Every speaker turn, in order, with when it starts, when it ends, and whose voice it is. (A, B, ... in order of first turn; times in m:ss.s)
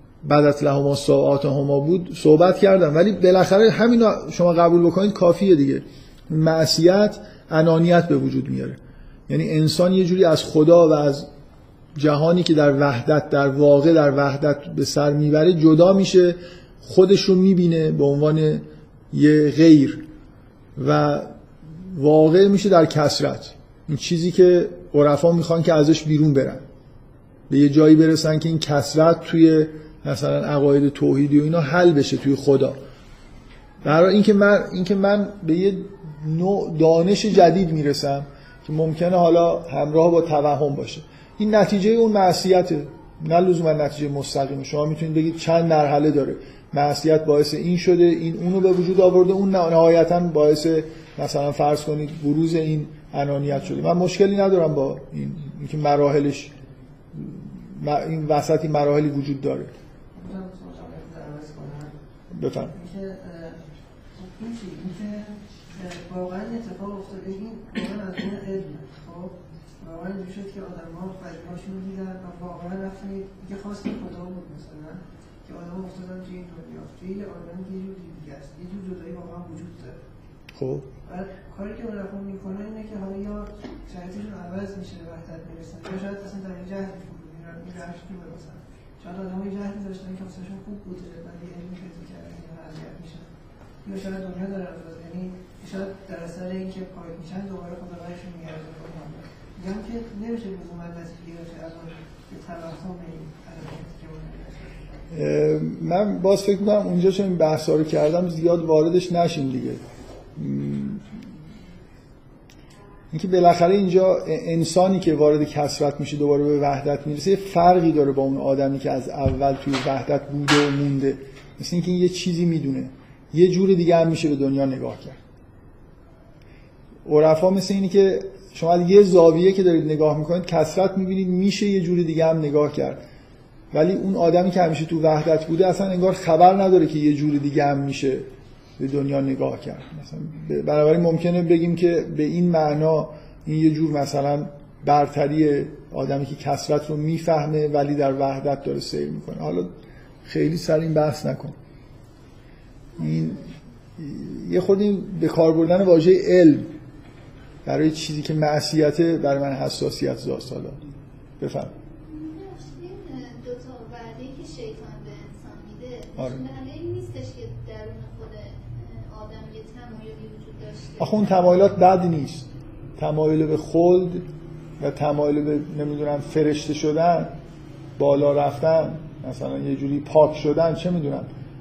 0:00.2-0:11.3 A
0:12.0-0:20.0 A
0:20.8-0:21.3 A
0:21.9-0:26.6 A
0:27.5-0:32.8 A
0:33.8-0:56.5 A
0:57.2-0:59.7 A
1:00.1-1:02.0 B
1:02.3-1:02.8 A
1:02.7-1:20.0 B
1:20.6-1:20.9 A
1:21.0-1:33.3 B
1:33.8-1:45.0 B
1:45.1-1:49.8 A
1:50.4-1:51.0 A
1:53.1-2:05.2 A
2:07.1-2:13.0 A
2:13.7-2:18.3 A
2:18.8-2:29.7 A
2:30.3-2:31.6 A
2:33.0-2:33.4 A
2:34.0-2:36.7 A
2:37.6-2:40.8 A
2:41.4-2:41.7 A
2:42.0-2:51.4 C
2:46.2-2:46.4 A
2:51.0-2:52.5 A
2:53.0-2:54.2 A
2:54.8-2:57.3 A
2:58.0-3:01.3 A